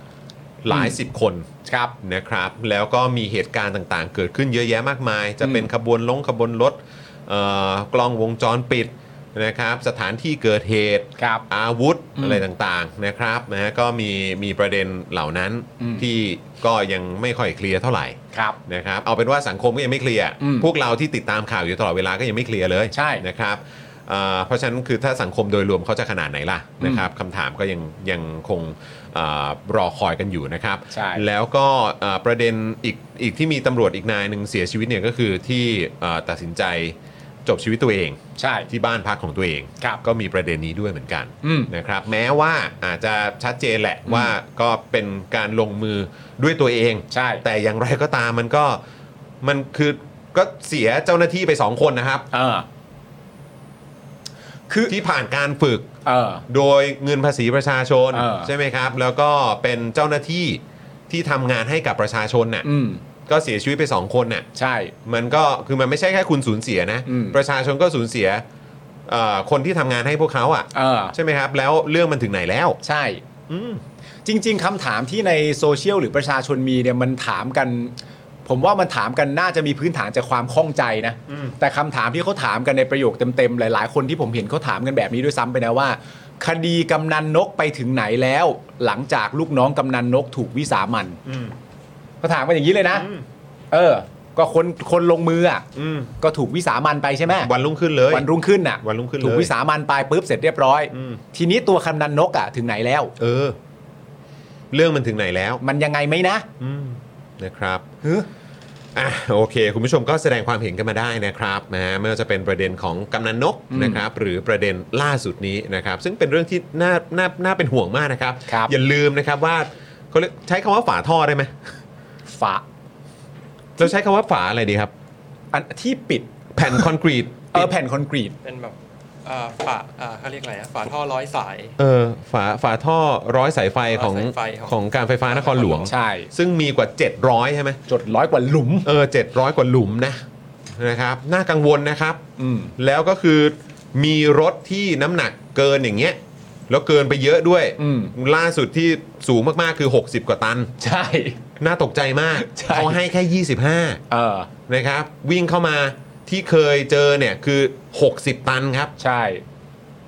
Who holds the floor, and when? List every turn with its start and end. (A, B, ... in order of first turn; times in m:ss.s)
0:00.6-0:01.5 A
0:00.7-0:00.9 B
0:01.6-0:01.9 B
0:02.0-0:48.8 A
0:05.4-0:05.7 B
0:11.2-0:11.4 B
0:12.2-0:12.4 B
0:15.8-0:16.0 B
0:20.4-0:20.7 B
0:22.9-0:23.2 B
0:26.8-0:27.0 B
0:30.9-0:31.2 B
0:38.4-0:38.7 B
0:41.4-0:41.7 B
0:47.1-0:47.4 B
0:49.4-0:52.3 A
0:52.3-0:52.6 B
0:54.7-0:54.9 B
0:54.9-0:55.9 A
0:56.0-0:56.4 B
0:56.5-1:02.7 A
0:58.1-0:58.5 B
1:02.6-1:03.0 B
1:03.2-1:04.5 A
1:04.6-1:04.9 B
1:05.0-1:08.4 A
1:07.0-1:07.4 B
1:09.0-1:12.8 A
1:10.7-1:11.1 B
1:12.8-1:13.2 B
1:13.5-1:13.8 A
1:14.2-1:17.9 B
1:18.4-1:31.2 B
1:21.3-1:21.6 A
1:31.2-1:31.5 A
1:32.2-1:33.1 B
1:32.9-1:33.2 A
1:33.7-1:35.6 B
1:35.7-1:36.1 A
1:36.2-1:37.5 B
1:37.3-1:38.3 A
1:38.1-1:43.1 B
1:38.8-1:39.5 A
1:40.9-1:41.2 A
1:43.2-1:43.6 A
1:44.7-1:45.6 A
1:45.6-1:46.5 B
1:46.6-1:47.8 A
1:48.9-2:01.5 A
1:53.7-1:54.0 B
2:02.3-2:02.6 B
2:03.8-2:04.9 A
2:05.5-2:06.9 B
2:06.5-2:07.7 A
2:07.5-2:08.3 B
2:08.4-2:11.7 C
2:11.8-2:17.8 A
2:13.9-2:14.7 C
2:15.2-2:15.9 C
2:15.9-2:16.3 B
2:17.9-2:18.9 B
2:18.8-2:20.2 A
2:20.7-2:22.2 A
2:22.4-2:22.7 B
2:22.8-2:26.2 A
2:26.7-2:30.7 A
2:27.8-2:28.1 B
2:30.8-2:31.4 B
2:31.6-2:34.0 A
2:32.4-2:33.0 B
2:34.1-2:34.5 B
2:34.7-2:38.9 A
2:39.0-2:39.4 B